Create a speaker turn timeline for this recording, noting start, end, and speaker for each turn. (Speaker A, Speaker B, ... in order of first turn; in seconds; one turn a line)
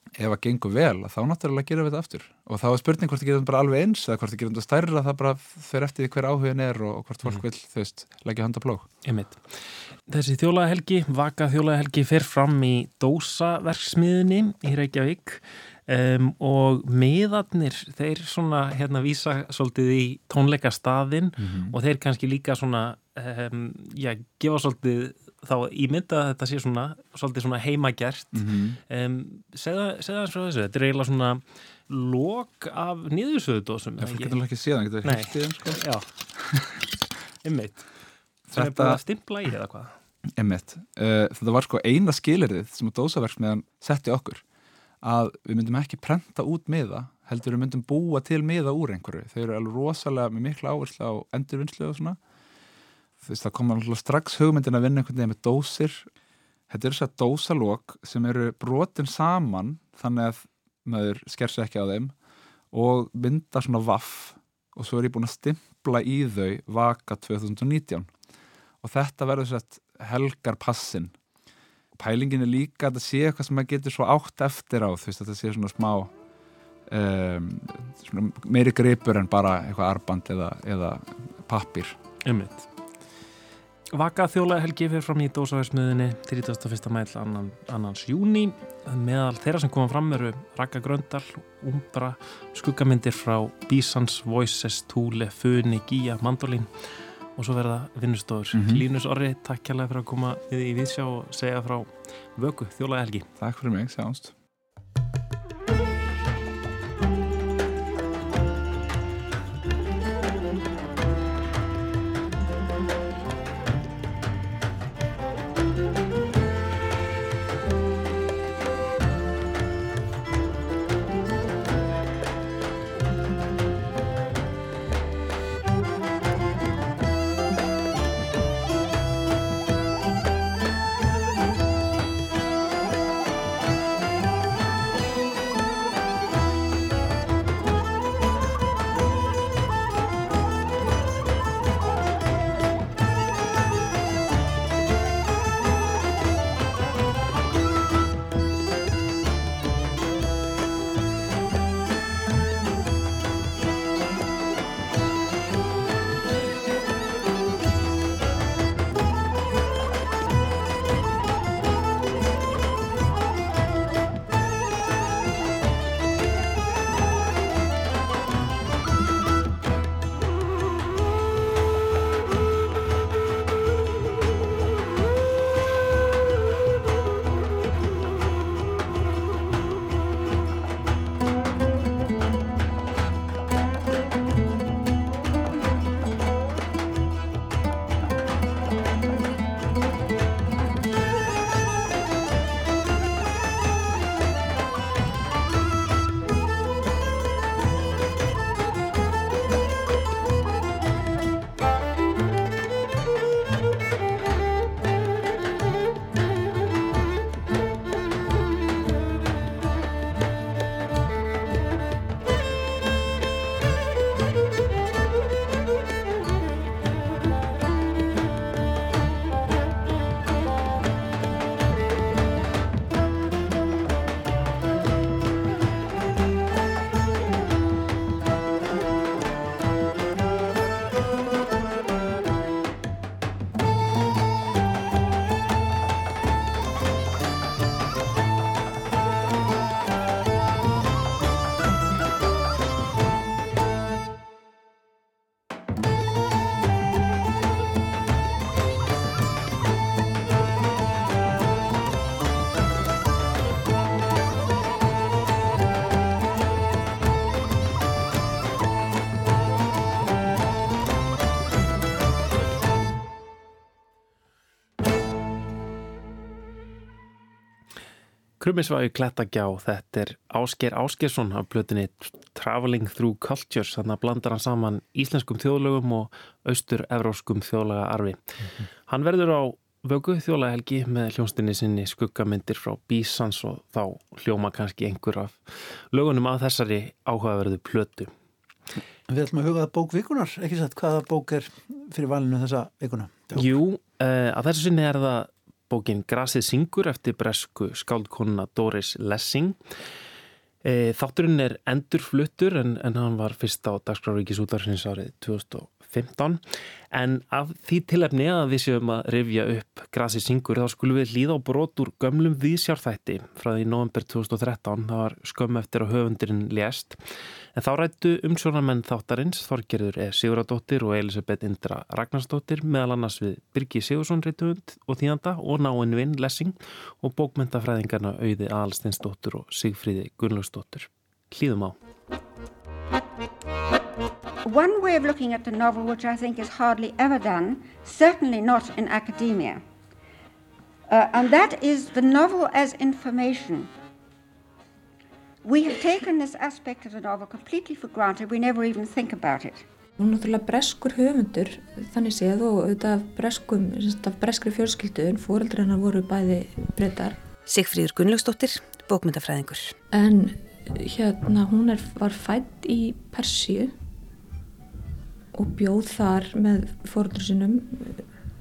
Speaker A: 0.2-8.9
Speaker B: 9.0-34.4
Speaker A: 21.4-21.8
Speaker A: 28.3-28.8
Speaker A: 34.0-35.8
Speaker B: 35.0-36.1
Speaker A: 36.3-36.8
Speaker B: 37.4-37.9
Speaker B: 38.5-39.9
Speaker A: 38.5-39.0
Speaker A: 40.4-44.4
Speaker A: 45.0-52.2
Speaker A: 53.2-56.1
Speaker A: 56.7-62.1
Speaker A: 62.7-68.1
Speaker A: 68.8-71.1
Speaker A: 72.0-76.1
Speaker A: 76.9-82.0
Speaker B: 82.2-82.7
Speaker B: 83.9-103.3
Speaker A: 98.5-98.8
Speaker A: 103.4-104.3
Speaker B: 268.4-278.2
Speaker B: 278.9-288.1
Speaker C: 289.1-293.5
Speaker B: 293.3-299.6
Speaker B: 300.6-317.0
Speaker B: 317.5-331.8
Speaker D: 334.4-339.6
Speaker D: 340.9-343.7
Speaker D: 345.4-349.6
Speaker E: 350.0-357.2
Speaker F: 357.5-359.7
Speaker E: 359.9-363.7
Speaker E: 365.3-368.0